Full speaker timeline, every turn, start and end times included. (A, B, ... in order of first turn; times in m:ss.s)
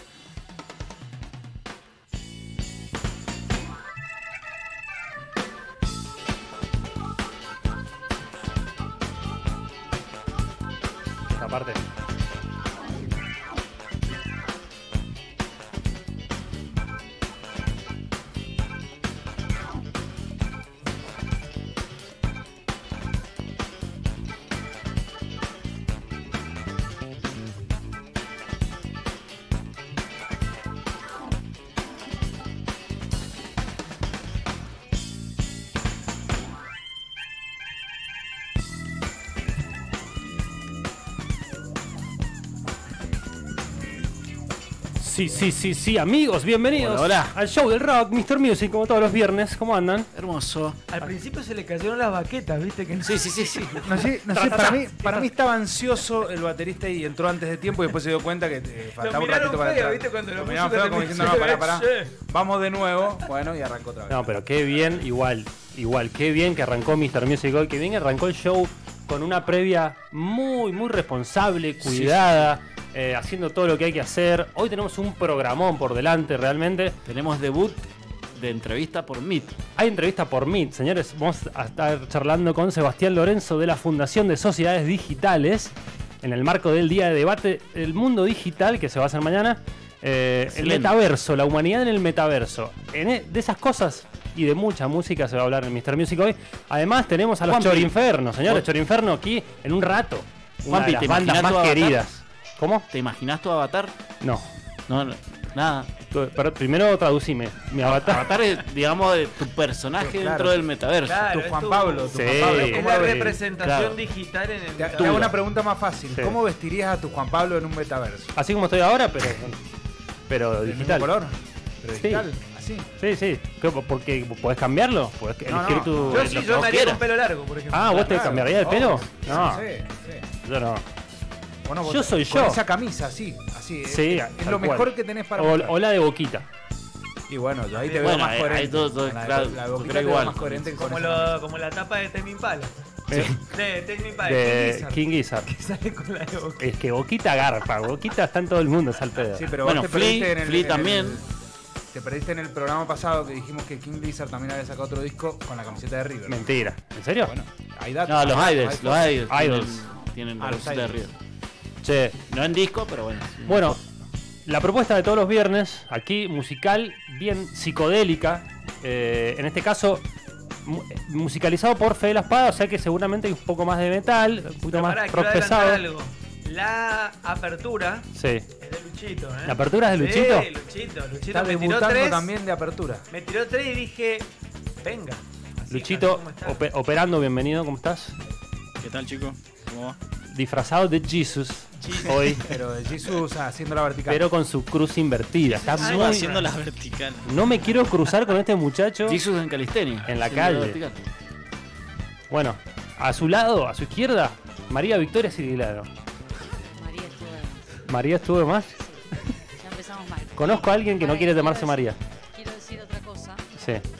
0:11.3-0:11.8 A
0:45.0-0:50.1 A
0:46.7-0:47.4 B
0:50.1-0:50.8 B
0:50.9-0:53.9 C
0:53.0-0:53.9 B
0:53.8-1:04.3 D
0:54.3-0:55.3 A
0:59.0-1:02.2 C
1:04.1-1:17.0 A
1:11.8-1:12.5 B
1:17.1-1:19.6 B
1:19.8-1:42.8 A
1:30.5-1:31.0 B
1:37.4-1:37.9 B
1:40.7-1:42.0 B
1:42.9-1:43.9 B
1:44.2-1:44.5 A
1:44.9-1:45.9 B
1:46.1-1:48.4 A
1:47.8-1:51.2 B
1:50.0-1:50.7 D
1:51.1-1:55.4 C
1:51.2-1:53.4 D
1:52.1-1:53.3 A
1:53.6-1:54.0 B
1:54.8-1:58.3 D
1:56.1-1:56.4 A
1:58.3-1:59.6 A
2:00.3-2:01.1 A
2:00.6-2:02.9 D
2:02.0-2:02.3 A
2:03.0-2:06.4 A
2:05.4-2:06.2 D
2:06.1-2:07.0 B
2:06.1-2:08.4 C
2:07.7-2:09.7 A
2:07.8-2:10.3 D
2:10.4-2:10.8 A
2:11.6-2:15.8 D
2:11.8-2:12.6 A
2:13.9-2:16.4 A
2:17.3-2:21.4 D
2:17.8-2:18.1 C
2:17.9-2:20.7 B
2:20.7-2:22.7 C
2:23.1-2:23.3 A
2:23.1-2:23.4 B
2:23.5-2:26.6 C
2:24.2-2:25.5 A
2:26.6-2:29.5 A
2:29.3-2:31.3 D
2:29.6-2:31.2 B
2:31.9-2:36.5 D
2:36.3-2:37.3 A
2:37.2-2:39.2 D
2:38.1-2:41.1 B
2:39.2-2:39.9 A
2:40.4-2:41.1 D
2:41.8-2:42.2 A
2:42.3-2:43.8 B
2:43.4-2:43.8 A
2:44.4-2:50.0 A
2:50.6-2:55.8 A
2:54.7-2:58.1 C
2:58.1-2:58.5 A
2:58.6-3:02.3 C
2:59.4-3:00.5 A
3:01.3-3:03.1 D
3:03.1-3:04.3 C
3:04.8-3:06.6 C
3:05.7-3:08.2 A
3:08.8-3:10.0 E
3:10.3-3:12.4 A
3:11.8-3:12.4 C
3:12.4-3:14.3 D
3:14.1-3:16.4 A
3:15.5-3:16.6 B
3:15.7-3:16.5 C
3:15.8-3:17.3 E
3:17.2-3:19.2 A
3:19.0-3:21.0 B
3:20.1-3:20.8 A
3:22.3-3:25.9 A
3:26.7-3:27.8 F
3:27.9-3:28.8 A
3:28.8-3:33.4 F
3:30.4-3:32.0 A
3:33.6-3:33.8 A